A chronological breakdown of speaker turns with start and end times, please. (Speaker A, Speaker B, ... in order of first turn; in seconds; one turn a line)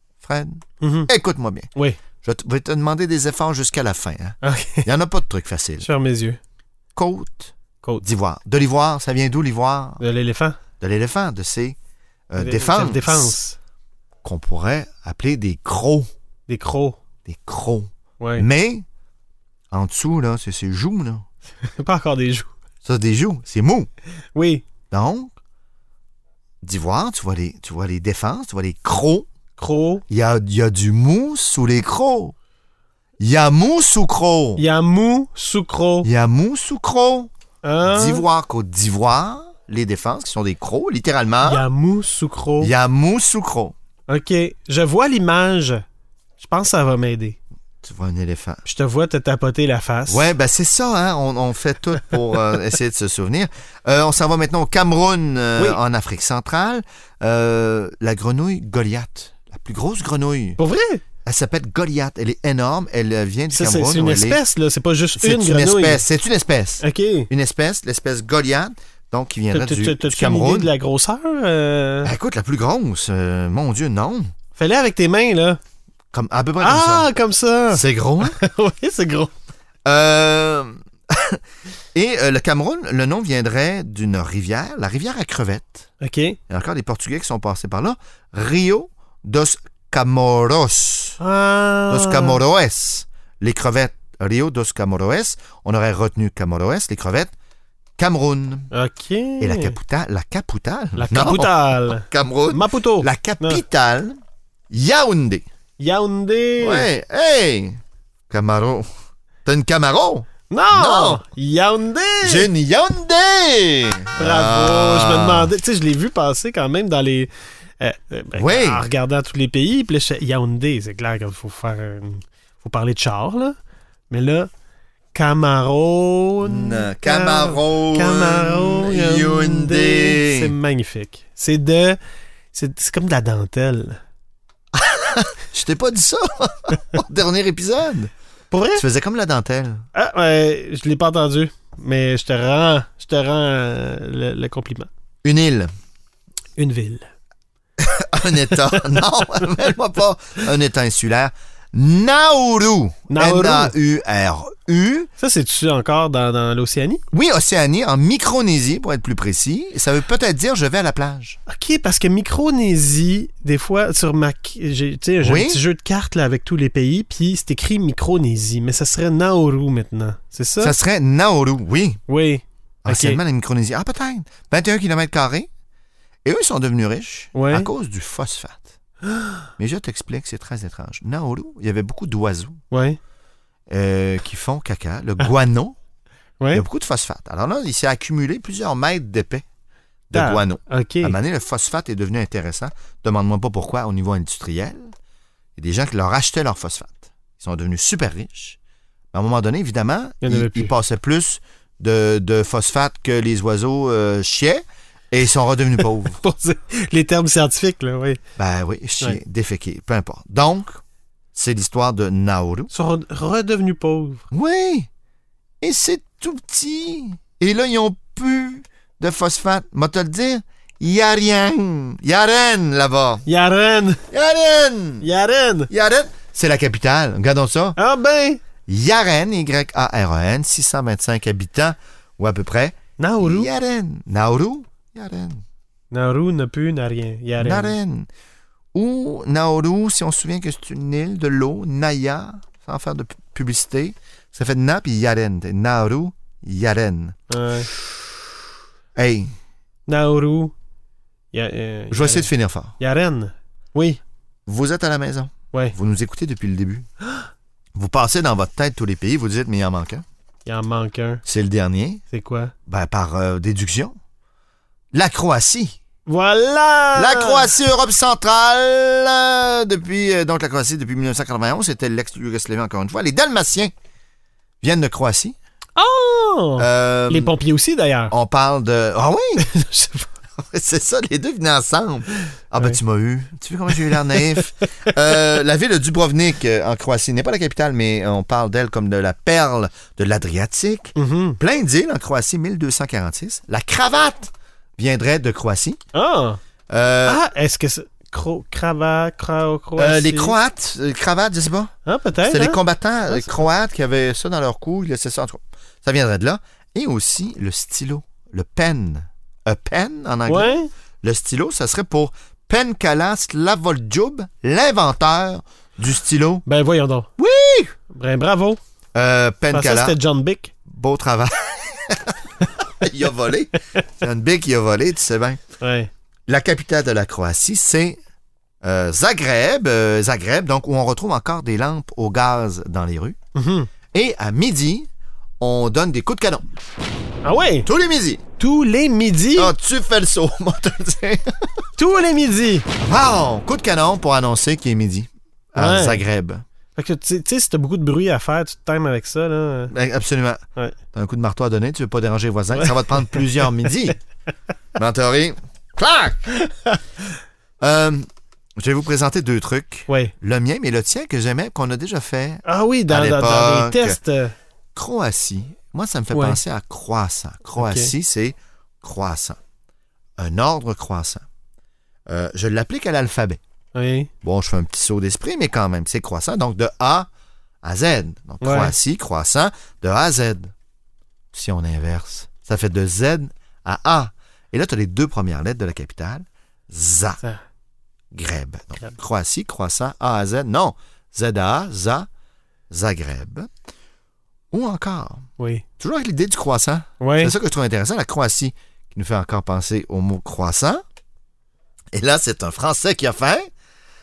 Speaker A: 0.2-1.7
Speaker B: 0.8-1.1
Speaker A: 2.2-5.9
Speaker B: 4.4-4.9
Speaker B: 5.8-6.4
Speaker A: 7.0-10.0
Speaker B: 10.0-10.6
Speaker A: 10.8-11.8
Speaker A: 12.3-13.3
Speaker B: 12.4-13.6
Speaker A: 14.2-16.1
Speaker B: 16.5-17.0
Speaker A: 17.2-18.8
Speaker B: 18.2-18.4
Speaker A: 19.7-21.2
Speaker B: 21.6-22.5
Speaker A: 22.8-23.9
Speaker B: 24.3-24.6
Speaker A: 24.9-25.3
Speaker A: 26.6-29.3
Speaker B: 29.6-30.0
Speaker A: 30.1-32.3
Speaker A: 33.2-34.6
Speaker B: 34.6-36.1
Speaker A: 36.0-37.3
Speaker B: 37.6-38.2
Speaker A: 37.9-41.6
Speaker B: 41.4-42.7
Speaker A: 42.6-43.7
Speaker B: 44.1-45.8
Speaker B: 46.4-47.4
Speaker A: 47.8-48.6
Speaker B: 48.6-50.3
Speaker A: 50.1-60.6
Speaker B: 60.6-61.0
Speaker A: 61.2-64.4
Speaker B: 63.5-66.0
Speaker A: 65.2-70.7
Speaker B: 66.8-67.3
Speaker B: 69.5-72.1
Speaker A: 72.0-74.3
Speaker B: 74.5-75.6
Speaker A: 76.1-77.1
Speaker B: 76.6-79.3
Speaker A: 77.7-78.4
Speaker A: 79.8-81.4
Speaker A: 81.9-85.8
Speaker B: 86.0-86.4
Speaker A: 86.5-91.2
Speaker B: 91.2-92.4
Speaker A: 91.9-97.3
Speaker A: 98.0-98.7
Speaker B: 98.7-99.8
Speaker A: 99.4-104.2
Speaker B: 101.0-103.6
Speaker A: 104.7-105.4
Speaker B: 105.8-106.9
Speaker A: 106.6-108.9
Speaker A: 109.4-111.2
Speaker B: 110.5-112.5
Speaker A: 112.2-115.5
Speaker B: 114.2-123.6
Speaker A: 118.3-118.9
Speaker B: 124.1-124.5
Speaker B: 125.1-132.0
Speaker A: 126.4-130.5
Speaker B: 132.5-134.0
Speaker A: 134.8-138.1
Speaker B: 138.5-138.8
Speaker A: 138.7-139.8
Speaker B: 139.9-144.9
Speaker A: 145.2-145.7
Speaker B: 146.6-147.1
Speaker A: 147.8-155.1
Speaker B: 148.5-149.5
Speaker B: 153.1-153.7
Speaker B: 155.2-157.0
Speaker A: 157.1-161.4
Speaker B: 161.5-170.8
Speaker A: 165.2-165.6
Speaker A: 170.6-172.0
Speaker B: 172.1-173.2
Speaker A: 172.8-175.5
Speaker A: 176.2-178.7
Speaker B: 177.3-177.7
Speaker A: 179.6-182.6
Speaker B: 182.7-183.0
Speaker A: 183.7-185.7
Speaker A: 186.5-189.4
Speaker A: 190.1-194.9
Speaker B: 190.1-191.1
Speaker A: 195.6-198.6
Speaker A: 199.1-206.2
Speaker B: 200.2-200.7
Speaker B: 206.1-208.2
Speaker A: 208.4-210.8
Speaker A: 211.3-212.7
Speaker B: 212.7-214.2
Speaker A: 214.3-214.9
Speaker A: 215.6-223.2
Speaker B: 223.2-224.0
Speaker A: 224.1-225.1
Speaker B: 225.0-225.7
Speaker A: 225.7-227.8
Speaker B: 227.8-228.4
Speaker A: 228.7-235.4
Speaker B: 233.0-233.5
Speaker B: 235.9-237.7
Speaker A: 237.4-238.1
Speaker A: 238.7-247.2
Speaker B: 247.3-247.7
Speaker A: 248.9-249.3
Speaker B: 249.9-250.5
Speaker B: 251.3-254.0
Speaker A: 251.9-252.7
Speaker A: 254.4-256.9
Speaker A: 257.8-260.0
Speaker B: 260.4-261.2
Speaker A: 261.2-262.0
Speaker B: 262.1-262.5
Speaker A: 262.7-263.9
Speaker A: 264.9-265.8
Speaker B: 266.1-267.5
Speaker A: 266.9-273.7
Speaker A: 274.6-275.4
Speaker B: 275.8-278.1
Speaker A: 276.6-277.3
Speaker A: 278.1-279.5
Speaker B: 279.4-280.1
Speaker A: 280.4-295.8
Speaker B: 283.7-285.1
Speaker B: 290.9-291.4
Speaker B: 295.9-296.4
Speaker A: 296.7-297.2
Speaker B: 297.0-300.4
Speaker A: 299.8-301.7
Speaker B: 301.9-303.3
Speaker A: 302.3-316.4
Speaker B: 310.2-310.7
Speaker B: 316.4-317.1
Speaker A: 317.2-317.7
Speaker B: 317.9-318.6
Speaker A: 318.9-319.9
Speaker B: 319.5-320.5
Speaker A: 320.7-322.1
Speaker A: 322.8-325.4
Speaker B: 325.6-325.9
Speaker A: 326.3-328.0
Speaker A: 328.6-333.2
Speaker B: 333.4-333.7
Speaker A: 333.9-334.9
Speaker A: 335.4-336.4
Speaker B: 337.2-337.7
Speaker A: 337.6-338.2
Speaker B: 338.4-339.5
Speaker A: 339.4-341.3
Speaker B: 341.8-342.7
Speaker A: 342.8-346.4
Speaker B: 345.6-346.0
Speaker B: 346.8-349.7
Speaker A: 349.7-350.4
Speaker A: 350.9-354.0
Speaker B: 352.5-353.4
Speaker A: 354.8-356.3
Speaker B: 356.3-356.8
Speaker A: 357.6-358.1
Speaker A: 358.6-364.0
Speaker B: 359.9-360.1
Speaker B: 362.4-364.3
Speaker A: 364.7-369.4
Speaker B: 366.1-366.4
Speaker B: 367.6-367.9
Speaker A: 370.2-371.2
Speaker A: 372.1-373.4
Speaker B: 373.7-374.1
Speaker A: 374.2-377.1
Speaker A: 377.6-380.5
Speaker B: 378.4-378.7
Speaker A: 381.3-387.2
Speaker A: 388.1-392.1
Speaker A: 392.7-393.5
Speaker A: 394.5-395.2
Speaker B: 395.4-395.6
Speaker A: 395.8-400.8
Speaker B: 397.0-397.3
Speaker A: 401.9-403.5